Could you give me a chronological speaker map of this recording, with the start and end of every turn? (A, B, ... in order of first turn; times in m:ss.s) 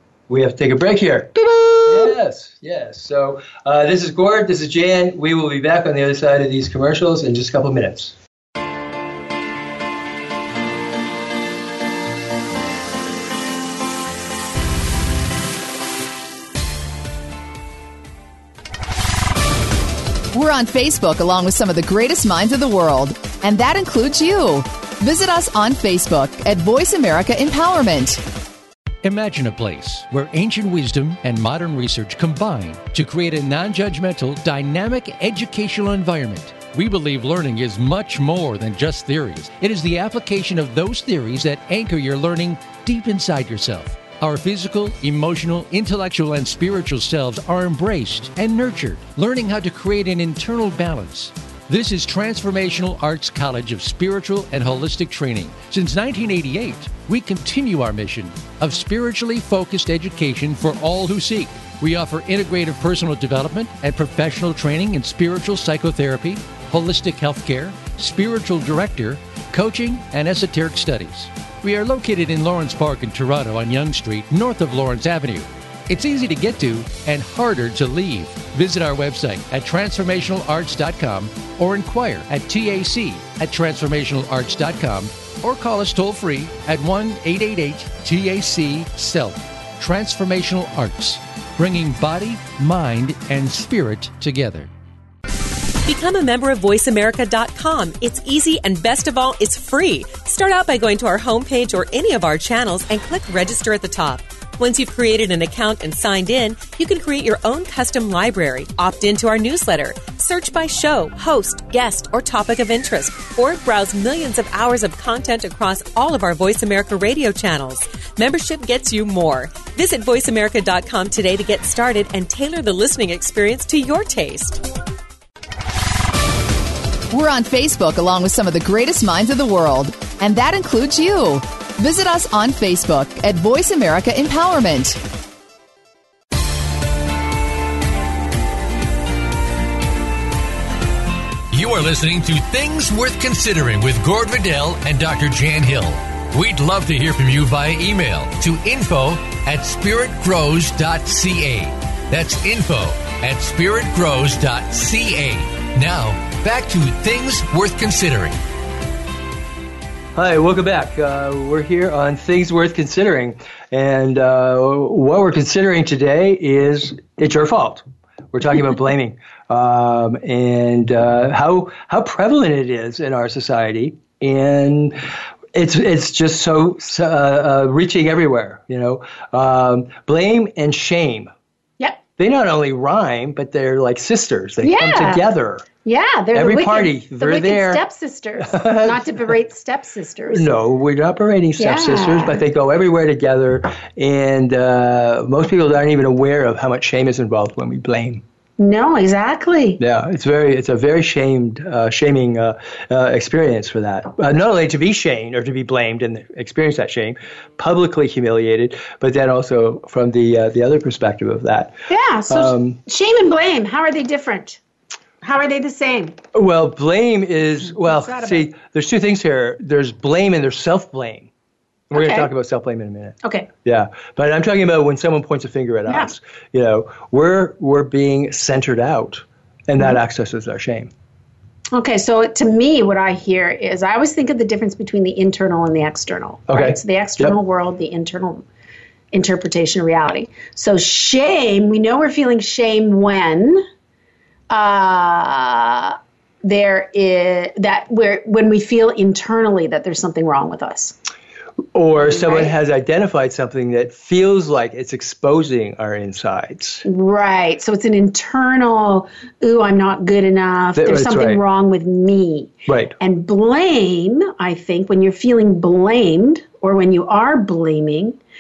0:00.3-0:01.4 A
0:01.4-0:02.1 B
0:01.9-0:08.2 A
0:20.3-0:28.2 C
0:29.0-1:34.7 D
1:35.8-2:04.6 E
2:07.1-2:15.0 C
2:21.5-2:38.4 D
2:40.2-2:55.0 A
2:55.5-3:01.3 A
3:02.2-3:05.7 A
3:04.6-3:05.2 B
3:05.8-3:10.6 B
3:06.3-3:07.8 A
3:08.4-3:09.1 A
3:10.3-3:18.2 A
3:11.6-3:12.4 B
3:18.6-3:19.8 B
3:19.8-3:31.8 A
3:31.9-3:34.6 B
3:32.3-3:32.8 A
3:35.2-3:36.2 B
3:36.3-3:41.3 A
3:37.7-3:38.5 B
3:41.9-3:50.9 A
3:41.9-3:42.3 B
3:43.2-3:43.5 B
3:45.9-3:46.1 B
3:51.7-3:58.5 B
3:56.5-3:57.4 A
3:59.1-4:03.6 B
4:04.5-4:11.0 B
4:11.7-4:16.8 A
4:12.0-4:12.5 B
4:16.8-4:28.2 B
4:20.8-4:21.4 A
4:22.7-4:23.0 A